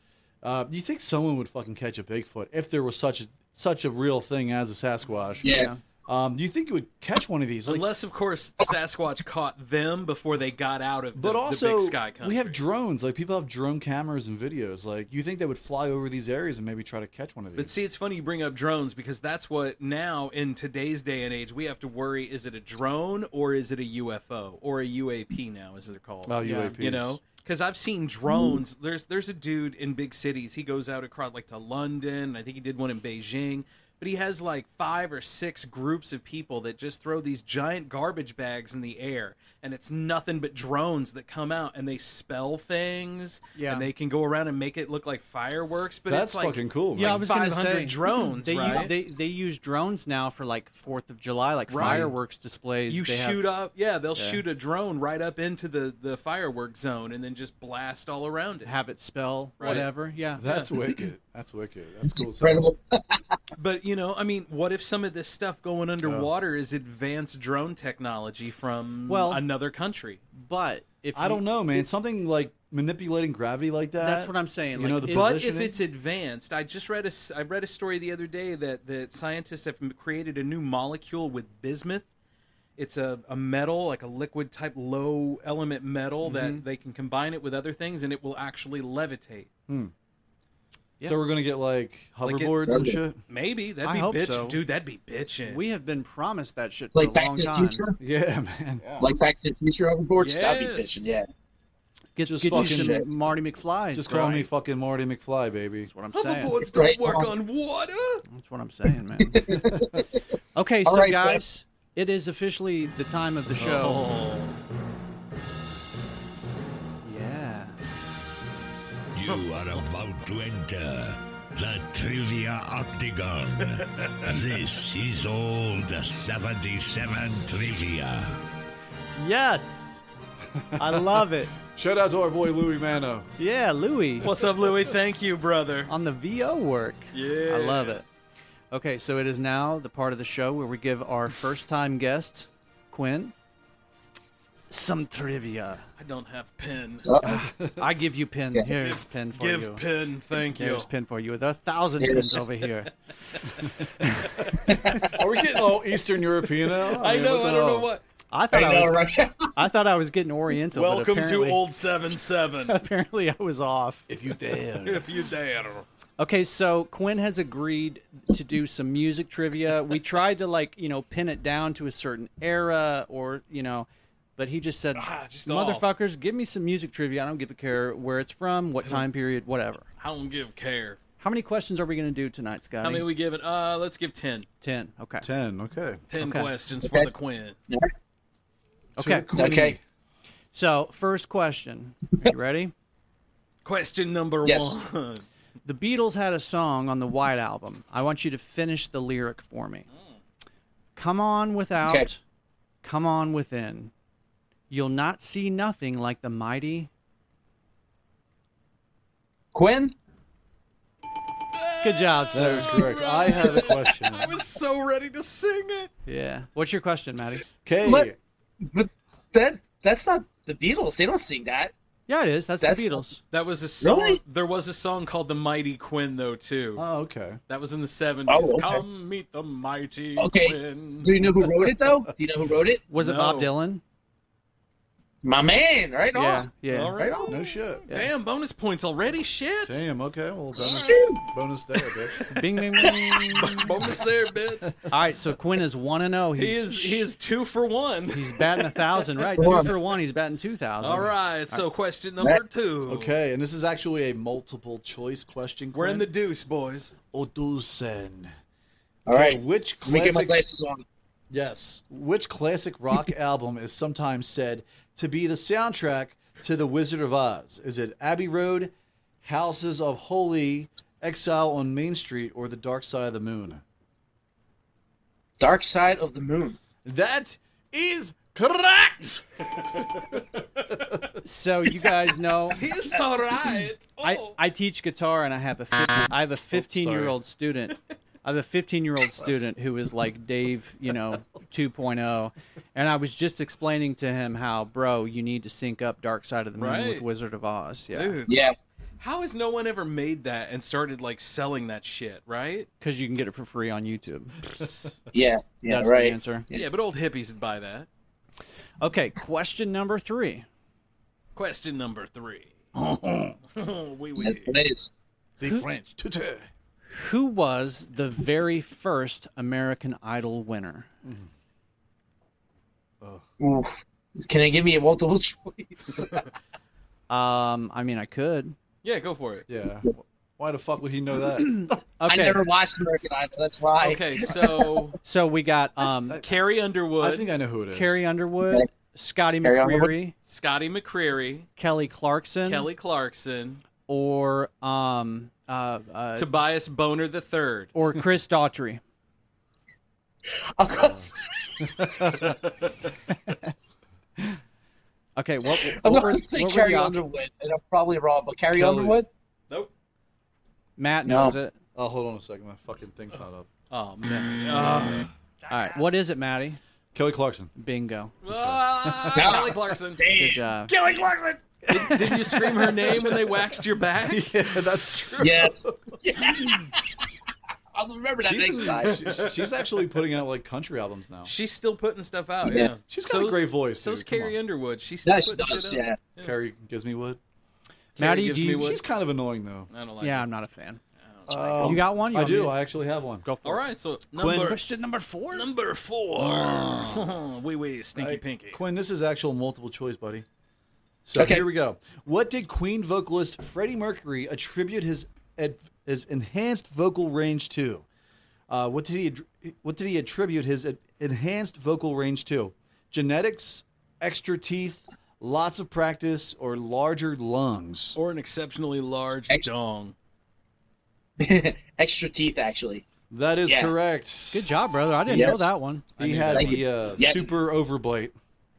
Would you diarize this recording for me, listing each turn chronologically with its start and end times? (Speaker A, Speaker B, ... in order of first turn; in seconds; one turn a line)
Speaker A: 0.4-5.5
Speaker B: 5.4-5.7
Speaker C: 5.4-5.8
Speaker A: 6.1-7.9
Speaker D: 7.7-12.6
Speaker A: 11.2-17.7
Speaker D: 17.6-48.9
Speaker A: 26.3-27.2
Speaker C: 26.4-26.8
Speaker B: 28.3-28.6
Speaker C: 43.5-43.9
Speaker A: 46.1-47.2
Speaker C: 47.0-53.4
Speaker D: 51.7-52.1
Speaker A: 51.8-52.1
Speaker D: 52.9-58.7
Speaker C: 54.2-54.4
Speaker C: 58.6-60.4
Speaker D: 59.6-59.9
Speaker A: 60.4-62.7
Speaker B: 62.1-63.4
Speaker D: 63.6-70.2
Speaker A: 66.0-66.3
Speaker C: 69.1-69.4
Speaker C: 70.3-71.8
Speaker A: 71.1-75.8
Speaker C: 74.0-75.3
Speaker D: 75.1-82.0
Speaker D: 82.8-89.5
Speaker C: 86.2-86.6
Speaker A: 89.7-89.9
Speaker A: 91.0-93.2
Speaker D: 92.2-92.6
Speaker B: 92.7-93.0
Speaker D: 93.3-95.6
Speaker C: 93.8-94.6
Speaker C: 95.5-97.8
Speaker B: 96.9-98.0
Speaker A: 98.0-99.0
Speaker B: 99.0-101.3
Speaker D: 100.2-101.0
Speaker C: 102.2-104.5
Speaker A: 102.2-103.0
Speaker B: 102.5-103.1
Speaker A: 103.9-105.9
Speaker C: 105.9-106.5
Speaker D: 106.1-108.2
Speaker B: 106.7-107.3
Speaker C: 108.3-109.4
Speaker B: 109.3-110.2
Speaker C: 110.6-114.0
Speaker B: 110.8-111.4
Speaker D: 113.6-114.5
Speaker C: 117.0-117.8
Speaker E: 119.1-128.4
Speaker C: 129.2-130.0
Speaker A: 130.6-133.3
Speaker C: 130.8-131.5
Speaker C: 133.4-134.3
Speaker D: 134.2-135.9
Speaker C: 135.9-138.1
Speaker D: 137.1-138.0
Speaker C: 138.7-143.3
Speaker C: 144.7-145.9
Speaker D: 146.0-147.1
Speaker B: 147.1-147.4
Speaker C: 147.2-149.8
Speaker A: 147.6-147.8
Speaker D: 148.8-150.9
Speaker C: 150.6-152.9
Speaker B: 152.0-152.4
Speaker A: 154.0-154.3
Speaker A: 155.1-157.9
Speaker D: 156.9-158.0
Speaker C: 158.3-161.6
Speaker B: 158.5-159.5
Speaker D: 160.7-162.8
Speaker C: 162.7-164.1
Speaker A: 164.1-165.1
Speaker D: 164.8-165.9
Speaker C: 166.2-179.8
Speaker D: 174.9-175.8
Speaker D: 180.0-181.0
Speaker C: 181.2-183.1
Speaker D: 182.8-184.5
Speaker C: 184.6-185.3
Speaker A: 185.2-186.0
Speaker D: 186.1-187.6
Speaker C: 186.2-186.5
Speaker B: 186.8-187.1
Speaker C: 189.0-189.3
Speaker A: 189.0-189.8
Speaker B: 189.3-189.8
Speaker C: 190.5-192.7
Speaker D: 193.7-195.2
Speaker B: 194.4-194.7
Speaker C: 195.7-199.8
Speaker C: 201.0-202.2
Speaker C: 202.8-203.9
Speaker C: 204.7-206.9
Speaker B: 209.5-209.9
Speaker D: 211.5-215.9
Speaker C: 211.8-213.0
Speaker A: 212.3-214.3
Speaker C: 216.1-217.4
Speaker A: 217.7-218.2
Speaker B: 217.8-221.7
Speaker C: 222.1-223.2
Speaker B: 222.6-223.0
Speaker D: 223.3-226.8
Speaker B: 223.8-224.2
Speaker A: 226.8-227.4
Speaker D: 227.5-231.1
Speaker B: 228.3-228.8
Speaker B: 230.2-232.8
Speaker C: 232.9-233.8
Speaker D: 232.9-233.5
Speaker B: 235.2-237.4
Speaker C: 236.1-237.0
Speaker D: 236.7-239.8
Speaker A: 237.3-237.8
Speaker A: 239.6-242.3
Speaker D: 240.6-241.0
Speaker B: 240.6-241.2
Speaker C: 242.3-243.7
Speaker B: 242.8-243.2
Speaker D: 243.4-244.7
Speaker C: 244.9-247.0
Speaker D: 246.4-248.8
Speaker C: 248.1-251.7
Speaker B: 249.4-249.7
Speaker D: 250.8-253.1
Speaker A: 252.9-256.1
Speaker D: 255.7-256.9
Speaker A: 257.1-258.3
Speaker B: 259.1-260.8
Speaker A: 259.1-260.4
Speaker A: 261.3-273.6
Speaker B: 275.4-276.6
Speaker A: 276.8-281.1
Speaker C: 281.2-282.6
Speaker D: 282.5-284.4
Speaker C: 284.0-298.2
Speaker A: 286.5-287.2
Speaker D: 296.6-297.0
Speaker D: 297.9-298.4
Speaker B: 298.3-298.6
Speaker D: 299.0-302.7
Speaker C: 302.8-304.4
Speaker B: 305.1-306.6
Speaker C: 305.7-306.5
Speaker D: 306.5-307.9
Speaker C: 308.8-310.5
Speaker D: 311.4-312.5
Speaker A: 312.7-313.4
Speaker D: 313.6-314.6
Speaker B: 314.2-314.9
Speaker A: 315.4-316.5
Speaker C: 316.9-320.9
Speaker A: 321.0-321.3
Speaker B: 323.4-326.3
Speaker C: 327.1-328.6
Speaker D: 328.8-329.4
Speaker A: 329.5-331.8
Speaker C: 331.5-332.4
Speaker B: 332.0-334.8
Speaker D: 333.8-335.0
Speaker C: 335.0-336.2
Speaker D: 336.2-337.3
Speaker A: 337.0-338.0
Speaker C: 337.7-340.1
Speaker B: 339.4-339.9
Speaker D: 340.3-341.5
Speaker C: 341.6-342.7
Speaker D: 342.4-343.6
Speaker C: 343.9-346.3
Speaker D: 346.2-347.7
Speaker C: 347.7-348.8
Speaker B: 350.6-351.1
Speaker A: 350.8-351.1
Speaker A: 351.6-352.4
Speaker C: 355.2-357.0
Speaker B: 355.5-359.1
Speaker A: 358.5-359.0
Speaker C: 360.8-361.5
Speaker B: 361.1-361.4
Speaker A: 361.8-363.5
Speaker D: 363.7-365.1
Speaker C: 365.5-366.6
Speaker A: 366.9-367.5
Speaker C: 367.6-368.1
Speaker D: 368.2-370.1
Speaker A: 368.3-369.4
Speaker B: 369.1-370.4
Speaker C: 370.2-370.7
Speaker A: 370.7-373.4
Speaker D: 371.7-374.3
Speaker C: 371.7-372.4
Speaker A: 374.0-376.5
Speaker B: 375.2-376.9
Speaker B: 377.8-379.2
Speaker A: 378.2-381.3
Speaker D: 379.0-379.3
Speaker D: 381.2-386.3
Speaker B: 382.4-382.7
Speaker A: 382.9-384.4
Speaker B: 385.1-386.0
Speaker A: 386.2-387.2
Speaker D: 388.0-388.8
Speaker C: 388.0-388.8
Speaker A: 388.6-389.7
Speaker D: 389.7-390.3
Speaker C: 390.0-390.8
Speaker D: 391.1-391.7
Speaker A: 391.3-393.2
Speaker C: 391.6-392.6
Speaker C: 393.2-393.6
Speaker D: 393.4-394.6
Speaker C: 394.2-395.5
Speaker A: 394.2-394.5
Speaker D: 395.3-398.6
Speaker A: 396.2-397.1
Speaker A: 397.9-400.2
Speaker A: 401.1-407.9
Speaker B: 401.1-401.4
Speaker A: 408.5-418.0
Speaker D: 417.9-419.9
Speaker B: 421.2-422.9
Speaker A: 423.1-424.5
Speaker B: 423.5-423.7
Speaker C: 424.3-426.6
Speaker B: 425.1-425.6
Speaker A: 426.0-428.1
Speaker B: 426.3-427.3